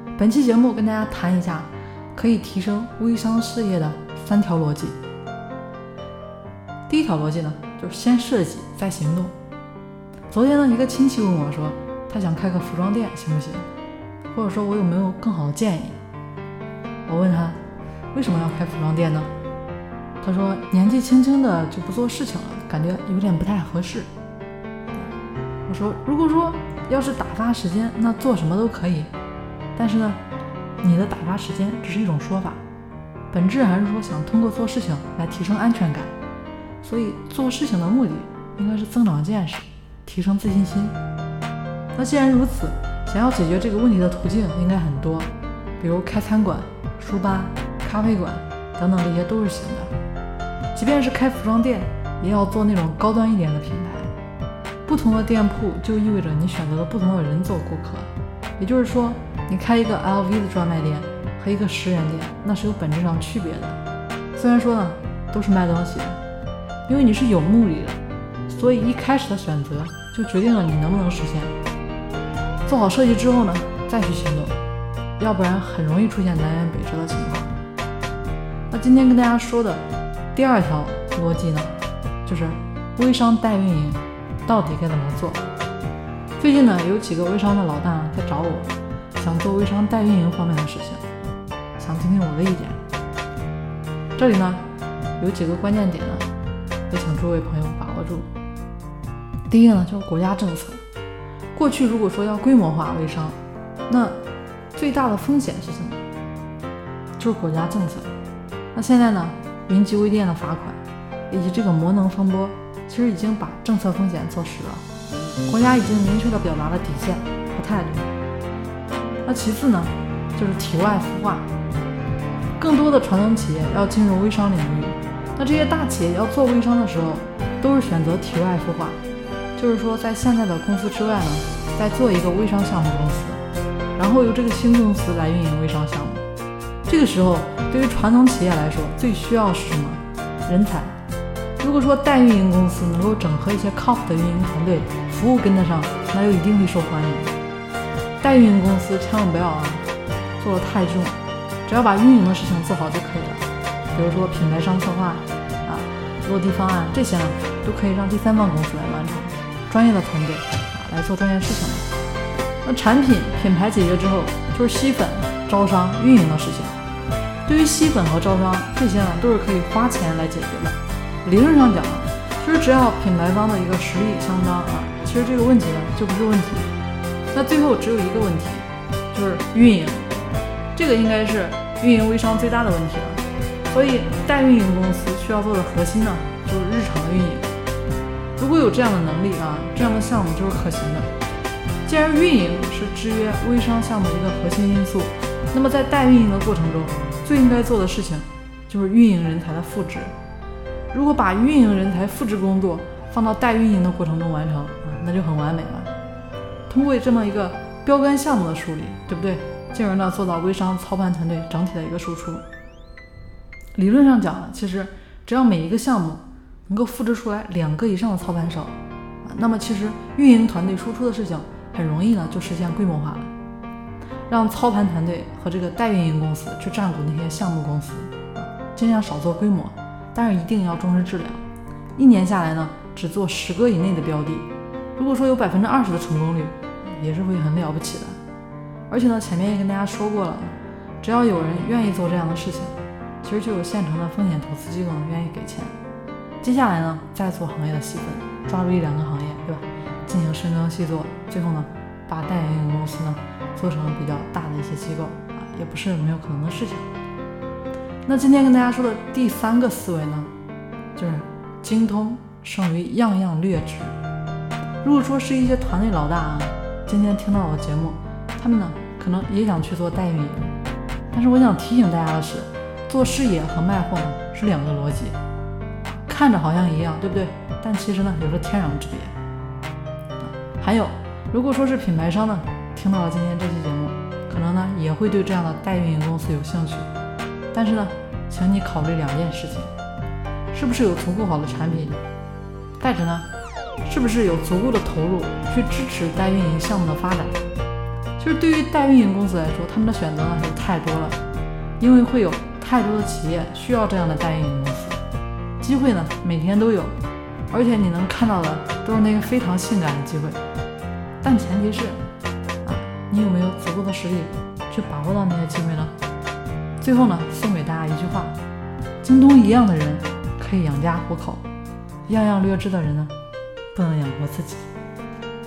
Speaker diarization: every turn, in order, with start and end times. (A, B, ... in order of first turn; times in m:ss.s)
0:00.2-0:05.0 A
0:06.9-0:09.3 A
0:10.3-0:13.6 A
0:14.3-0:16.0 A
0:17.1-0:17.6 A
0:18.1-0:19.3 A
0:20.2-0:24.1 A
0:25.7-0:29.1 A
0:29.8-0:30.2 A
0:30.8-0:32.6 A
0:33.3-0:36.1 A
0:36.8-0:41.0 A
0:42.0-0:49.9 A
0:50.7-0:54.1 A
0:54.8-1:03.8 A
1:04.4-1:06.2 A
1:06.9-1:11.5 A
1:12.7-1:14.6 A
1:15.2-1:17.5 A
1:18.7-1:19.8 A
1:20.3-1:25.4 A
1:26.4-1:31.0 A
1:31.8-1:32.8 A
1:34.2-1:34.6 A
1:35.2-1:36.3 A
1:36.9-1:38.3 A
1:39.5-1:40.8 A
1:41.5-1:43.4 A
1:43.9-1:44.2 A
1:44.7-1:46.0 A
1:47.2-1:48.1 A
1:48.7-1:54.8 A
1:55.4-1:58.1 A
1:59.2-2:01.5 A
2:02.6-2:09.0 A
2:09.6-2:13.4 A
2:14.0-2:16.2 A
2:16.9-2:21.0 A
2:21.6-2:27.3 A
2:28.2-2:29.9 A
2:30.4-2:41.9 A
2:42.6-2:46.8 A
2:47.4-2:56.7 A
2:57.3-3:00.0 A
3:00.7-3:07.5 A
3:08.4-3:11.1 A
3:11.8-3:20.1 A
3:20.9-3:25.9 A
3:26.7-3:32.4 A
3:33.7-3:43.3 A
3:44.3-3:51.4 A
3:52.0-3:58.2 A
3:58.9-4:05.8 A
4:06.4-4:16.9 A
4:18.0-4:20.3 A
4:21.0-4:24.0 A
4:24.8-4:30.5 A
4:31.1-4:35.2 A
4:35.9-4:39.1 A
4:40.2-4:46.9 A
4:47.5-4:49.7 A
4:50.5-4:52.0 A
4:52.8-4:53.3 A
4:53.8-4:57.4 A
4:58.2-5:01.2 A
5:01.8-5:05.0 A
5:05.6-5:06.9 A
5:07.5-5:10.4 A
5:11.2-5:12.0 A
5:12.6-5:15.9 A
5:16.8-5:18.3 A
5:19.0-5:21.4 A
5:22.0-5:23.1 A
5:23.7-5:24.7 A